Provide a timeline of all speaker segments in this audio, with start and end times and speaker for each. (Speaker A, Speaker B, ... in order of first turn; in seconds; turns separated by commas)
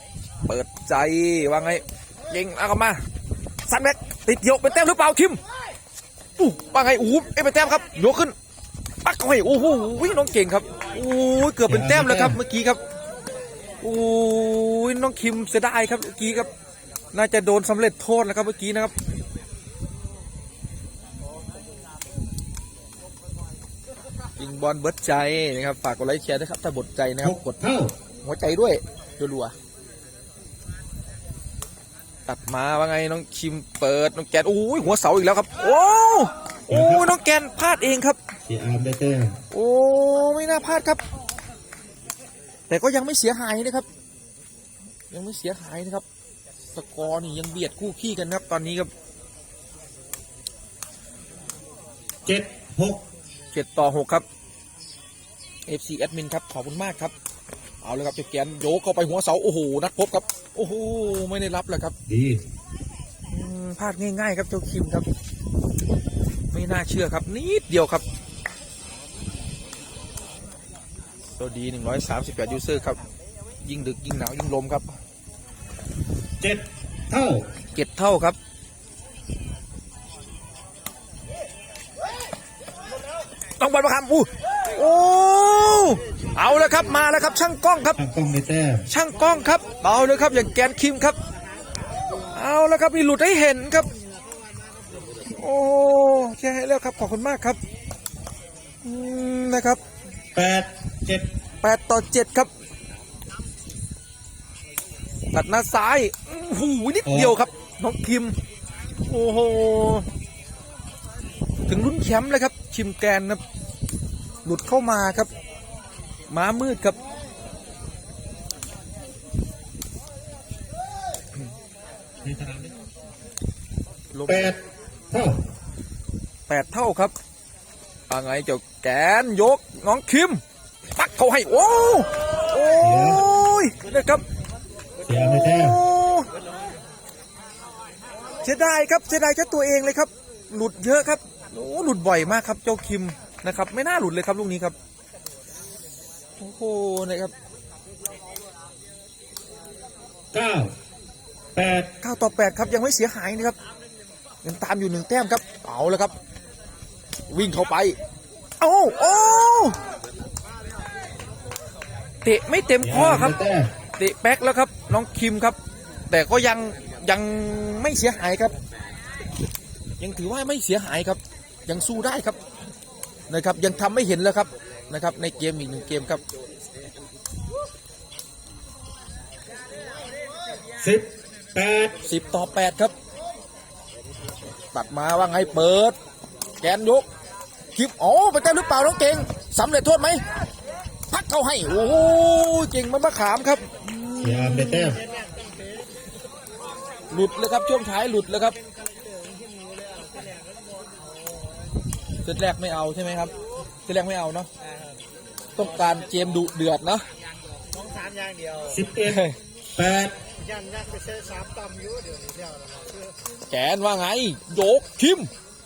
Speaker A: 0.5-3.0, Speaker A: 3.7-5.4, Speaker A: 6.4-8.3, Speaker A: 9.0-12.8, Speaker B: 11.7-12.4, Speaker A: 13.8-16.5, Speaker A: 17.1-18.9, Speaker A: 24.4-27.6, Speaker B: 27.2-27.9, Speaker A: 28.2-29.6, Speaker A: 32.3-38.2, Speaker B: 36.7-37.1, Speaker B: 38.5-39.4, Speaker A: 39.5-41.0, Speaker A: 42.7-43.9, Speaker A: 45.1-46.0, Speaker A: 46.7-48.9, Speaker B: 52.3-53.0, Speaker A: 53.5-54.2, Speaker A: 55.7-57.1, Speaker A: 57.8-62.0, Speaker B: 62.1-62.4, Speaker A: 63.3-65.1, Speaker A: 66.5-68.0, Speaker A: 71.4-73.0, Speaker A: 73.7-74.9, Speaker B: 76.4-77.5, Speaker A: 77.8-78.4, Speaker A: 83.6-88.0, Speaker B: 88.0-88.9, Speaker A: 88.9-91.2, Speaker A: 92.3-93.9, Speaker A: 95.3-97.6, Speaker A: 98.8-99.8, Speaker B: 100.3-101.3, Speaker A: 101.6-102.5, Speaker A: 105.3-108.4, Speaker B: 107.0-107.4, Speaker A: 109.1-110.1, Speaker A: 111.7-113.4, Speaker A: 114.5-115.3, Speaker A: 116.3-117.0, Speaker B: 122.2-122.8, Speaker A: 124.1-124.5, Speaker B: 124.3-124.6, Speaker B: 125.1-125.4, Speaker A: 126.5-127.1, Speaker A: 128.1-130.4, Speaker A: 131.0-134.2, Speaker B: 132.8-133.2, Speaker B: 135.1-135.8, Speaker A: 135.1-136.3, Speaker A: 138.4-144.8, Speaker A: 146.4-147.3, Speaker B: 150.3-150.7, Speaker B: 151.6-151.9, Speaker A: 152.0-153.6, Speaker A: 154.4-156.1, Speaker A: 157.3-158.0, Speaker A: 158.6-159.8, Speaker A: 162.2-163.4, Speaker B: 162.8-163.7, Speaker A: 164.0-165.6, Speaker A: 166.1-168.5, Speaker A: 170.0-172.4, Speaker A: 173.3-176.2, Speaker B: 180.8-182.0, Speaker A: 182.0-182.9, Speaker A: 184.7-186.0, Speaker A: 186.6-187.1, Speaker A: 187.8-190.2, Speaker A: 191.1-194.9, Speaker B: 194.2-195.0, Speaker C: 194.8-196.0, Speaker A: 197.1-198.6, Speaker C: 198.6-201.7, Speaker A: 202.2-203.3, Speaker A: 203.9-204.5, Speaker C: 204.6-205.0, Speaker A: 205.6-207.1, Speaker C: 205.6-206.3, Speaker C: 207.6-208.8, Speaker B: 208.7-209.2, Speaker A: 209.0-209.4, Speaker B: 209.7-210.2, Speaker C: 210.4-213.2, Speaker A: 213.5-215.3